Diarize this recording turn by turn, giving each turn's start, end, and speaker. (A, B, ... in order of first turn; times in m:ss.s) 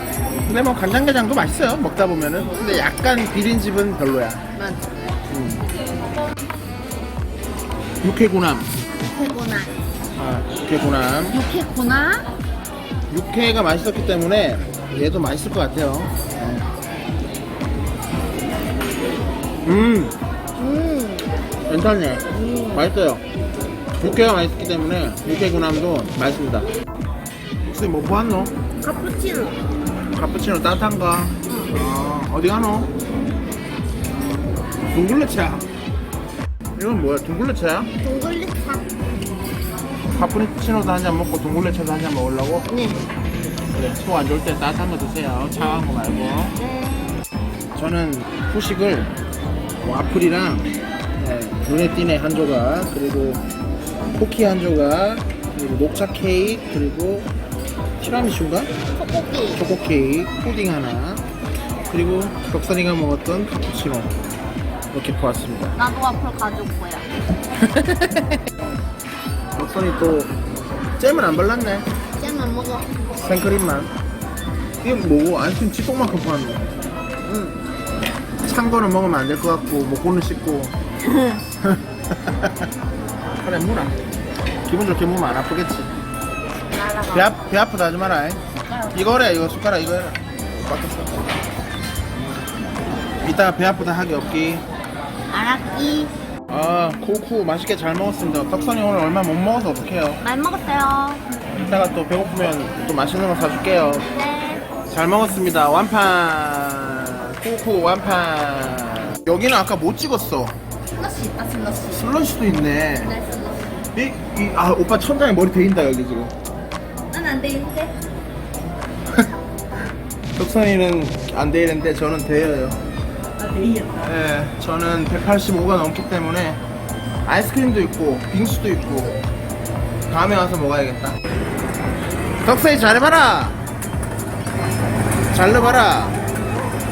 0:00.4-0:04.4 A
0:04.5-0:04.9 B
0:05.3-0:05.6 A
0:08.0-0:08.7 A
0:09.0-0:09.7 B
0:10.2-0:11.4 A
0:11.3-0:12.2 B
0:13.1-0:16.7 A
0:19.6-0:20.2 A
0:20.6-0:21.3 B
0:21.7-0:23.2 A
0:22.3-0:22.8 B
0:24.0-0:26.7 A
0:27.6-0:28.5 A
0:28.8-0:29.6 B
0:30.1-0:32.9 A
0:31.5-0:31.7 B
0:34.9-0:35.7 A
0:36.7-0:37.9 A
0:38.0-0:38.9 B
0:40.1-0:42.7 A
0:42.7-0:43.0 B
0:43.7-0:46.5 A
0:45.6-0:45.9 B
0:46.6-0:47.2 B
0:47.7-0:49.1 A
0:49.8-0:53.4 A
0:54.1-0:57.3 A
0:58.0-0:58.7 A
0:59.0-0:59.6 B
0:59.5-1:01.2 A
1:01.9-1:04.1 A
1:04.9-1:05.8 A
1:05.8-1:07.1 B
1:07.6-1:08.4 A
1:09.6-1:10.3 A
1:11.0-1:11.9 A
1:12.2-1:12.9 B
1:13.1-1:13.9 A
1:14.8-1:16.7 A
1:17.2-1:17.6 B
1:18.4-1:20.7 A
1:21.0-1:21.4 B
1:21.6-1:22.7 A
1:23.4-1:24.0 A
1:24.7-1:25.9 A
1:26.7-1:27.4 B
1:27.1-1:28.4 A
1:28.6-1:29.1 B
1:28.9-1:31.3 A
1:33.2-1:34.6 A
1:35.3-1:36.1 B
1:36.5-1:40.2 A
1:40.2-1:41.2 B
1:41.6-1:44.1 A
1:44.1-1:44.7 B
1:44.9-1:50.6 A
1:51.0-1:52.1 B
1:51.9-1:53.1 A
1:53.0-1:53.8 B
1:53.9-1:56.3 A
1:57.1-1:58.0 B
2:00.4-2:02.8 A
2:03.4-2:04.0 B
2:04.0-2:06.6 A
2:07.2-2:09.2 A
2:10.1-2:11.2 A
2:12.4-2:13.6 A
2:15.3-2:16.2 A